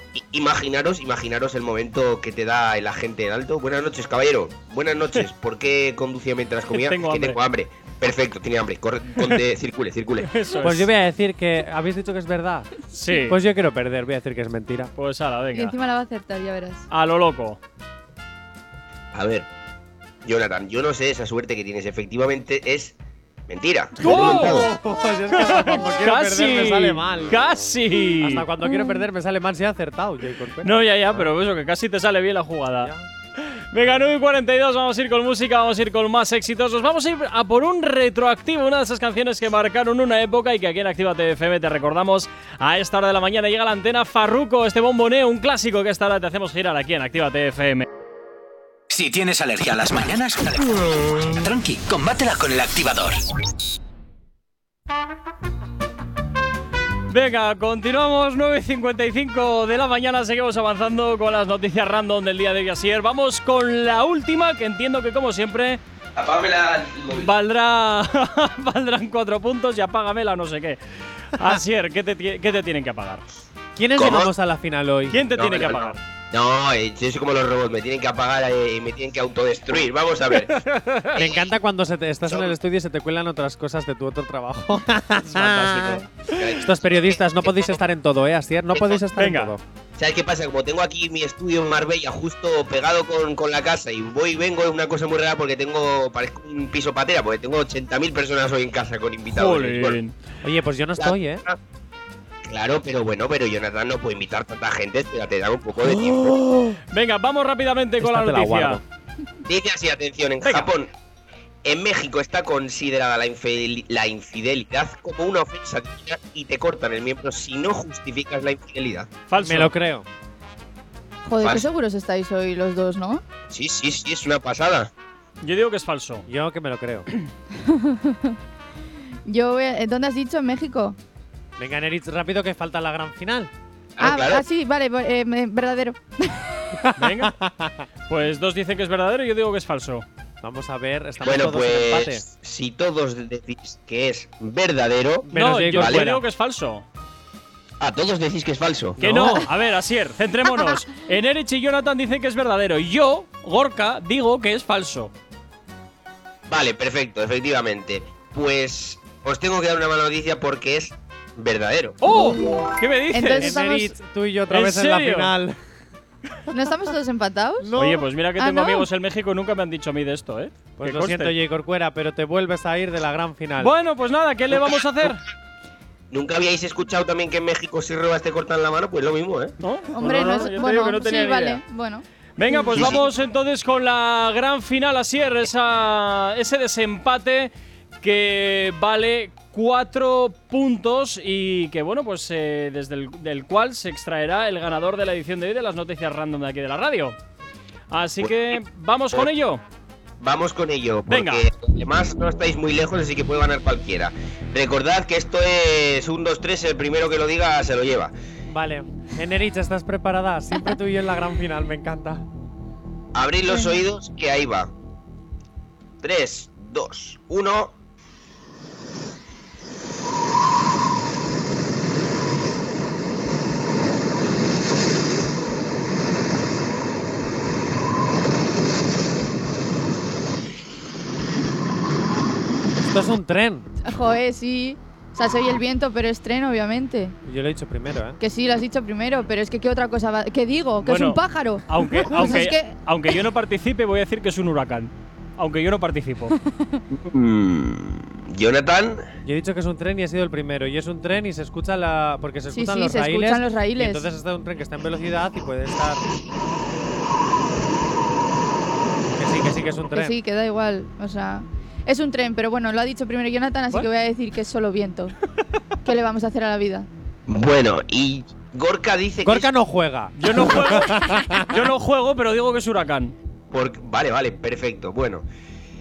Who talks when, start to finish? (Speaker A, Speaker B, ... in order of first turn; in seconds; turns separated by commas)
Speaker A: 0.1-10.3, Speaker B: 6.7-7.4, Speaker B: 10.2-10.9, Speaker C: 10.6-12.7, Speaker B: 12.9-13.4, Speaker C: 13.2-14.9, Speaker B: 14.9-15.7, Speaker D: 15.5-16.9, Speaker B: 16.9-17.6, Speaker A: 19.1-19.5, Speaker A: 20.2-23.0, Speaker A: 23.5-24.7, Speaker C: 24.0-27.4, Speaker B: 24.0-24.7, Speaker B: 25.3-28.5, Speaker C: 28.2-31.3, Speaker D: 28.6-29.0, Speaker B: 30.6-47.9, Speaker C: 32.8-33.1, Speaker E: 48.9-53.2, Speaker B: 57.1-65.8, Speaker A: 66.2-67.3, Speaker B: 67.1-70.8, Speaker B: 71.3-73.2, Speaker C: 73.8-75.4, Speaker A: 73.9-74.3, Speaker B: 75.1-76.0, Speaker A: 75.3-81.5, Speaker B: 80.5-81.1, Speaker C: 81.2-89.6, Speaker A: 82.3-82.5, Speaker A: 85.2-87.8, Speaker A: 88.7-89.0, Speaker B: 89.2-89.5, Speaker A: 90.0-100.0, Speaker B: 99.3-100.1, Speaker C: 100.4-101.4, Speaker A: 101.0-101.6, Speaker A: 102.4-106.4, Speaker C: 105.8-106.8, Speaker B: 106.9-108.8, Speaker C: 108.0-108.8, Speaker A: 109.5-110.9, Speaker B: 110.4-110.7, Speaker A: 111.6-119.1, Speaker B: 119.3-119.7, Speaker C: 119.4-120.0, Speaker D: 121.2-123.2, Speaker A: 123.5-124.9, Speaker B: 125.4-126.2, Speaker C: 126.3-127.1, Speaker D: 127.5-128.4, Speaker D: 129.3-131.0, Speaker C: 131.6-133.5, Speaker A: 134.0-134.4, Speaker D: 134.0-136.8, Speaker C: 136.8-137.8, Speaker B: 136.9-137.3, Speaker B: 138.1-140.1, Speaker C: 140.4-142.2, Speaker A: 141.2-146.1, Speaker C: 145.2-146.2, Speaker B: 145.3-146.8, Speaker A: 147.8-149.0, Speaker C: 149.0-149.5, Speaker B: 149.0-155.1, Speaker A: 156.5-162.0, Speaker B: 162.0-163.6, Speaker D: 163.1-164.0, Speaker C: 163.4-165.6, Speaker B: 164.5-165.3, Speaker D: 166.5-167.7, Speaker C: 167.6-168.1, Speaker B: 167.8-171.4, Speaker D: 168.4-168.9, Speaker C: 170.8-173.7, Speaker B: 173.6-175.2, Speaker A: 174.5-175.1, Speaker A: 176.1-179.5, Speaker B: 179.6-181.6, Speaker D: 179.9-182.9, Speaker B: 182.4-197.2, Speaker A: 182.7-183.1, Speaker B: 197.9-199.6, Speaker A: 200.2-208.1, Speaker B: 201.1-201.5, Speaker C: 208.5-212.2, Speaker A: 213.1-214.7, Speaker D: 213.5-213.8, Speaker A: 216.0-217.7, Speaker C: 232.8-233.7, Speaker D: 233.8-237.2, Speaker C: 237.3-238.2, Speaker D: 238.2-242.7, Speaker B: 240.8-246.3, Speaker D: 246.4-246.8, Speaker A: 246.9-249.1, Speaker C: 249.2-256.0, Speaker D: 252.5-254.1, Speaker C: 259.1-260.2, Speaker D: 259.9-265.1, Speaker D: 265.8-266.9, Speaker A: 267.3-269.5, Speaker C: 269.2-271.6, Speaker B: 270.1-273.1, Speaker A: 273.5-275.2